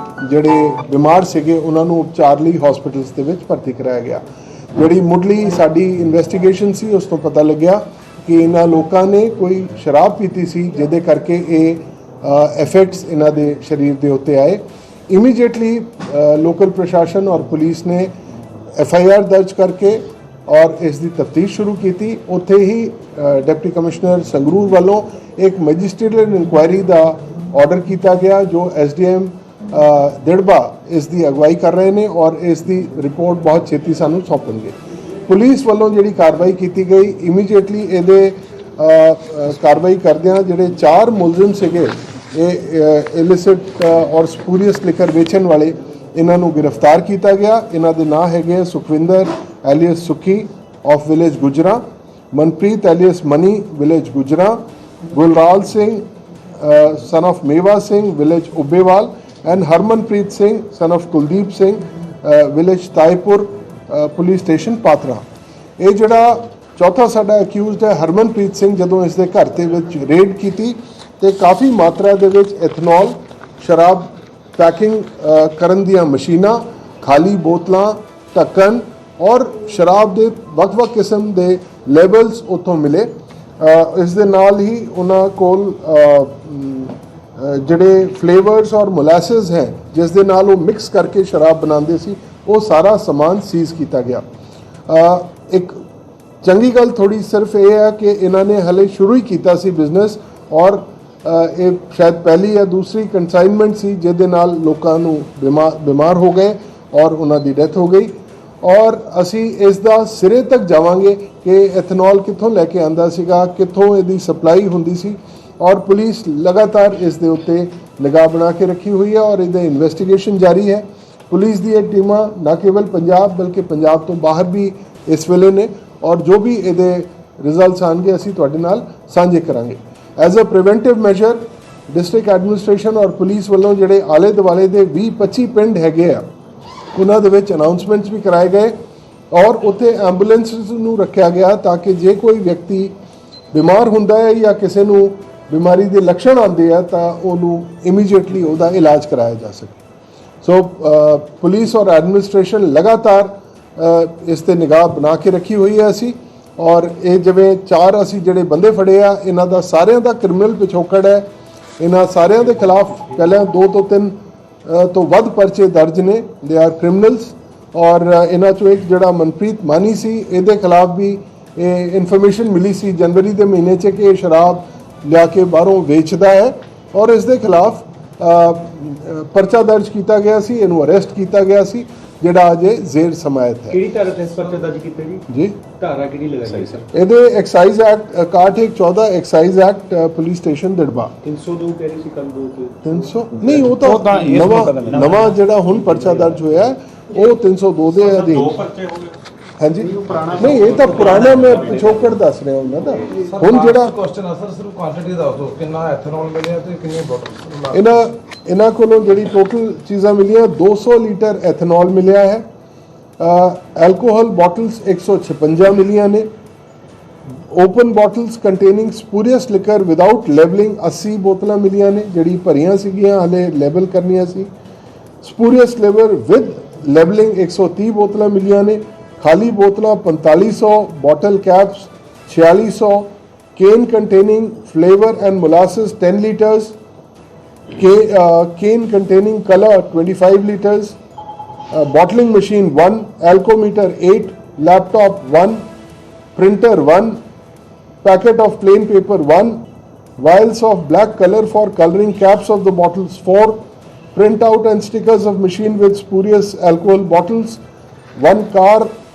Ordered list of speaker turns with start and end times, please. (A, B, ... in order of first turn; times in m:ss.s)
0:00.2-0:04.2 A
0:04.7-0:18.1 A
0:18.8-0:34.7 A
0:35.3-0:56.1 A
0:56.6-1:05.2 A
1:05.8-1:34.2 A
1:34.9-1:35.8 A
1:36.4-2:16.3 A
2:16.9-2:18.8 A
2:19.3-2:22.9 A
2:23.5-2:29.8 A
2:30.4-3:03.8 A
3:03.7-3:06.9 B
3:05.3-3:05.6 A
3:06.9-3:11.2 A
3:11.2-3:15.3 B
3:12.8-3:18.8 A
3:13.8-3:15.3 C
3:15.9-3:16.4 B
3:19.6-3:23.9 A
3:19.8-3:22.1 B
3:21.2-3:21.5 C
3:23.2-3:28.0 C
3:27.7-3:32.4 A
3:33.2-3:36.3 A
3:37.5-3:44.5 A
3:45.2-3:56.8 A
3:57.7-4:01.0 A
4:01.7-4:05.6 A
4:06.4-4:07.2 A
4:08.0-4:09.6 A
4:10.2-4:17.6 A
4:18.2-4:18.9 A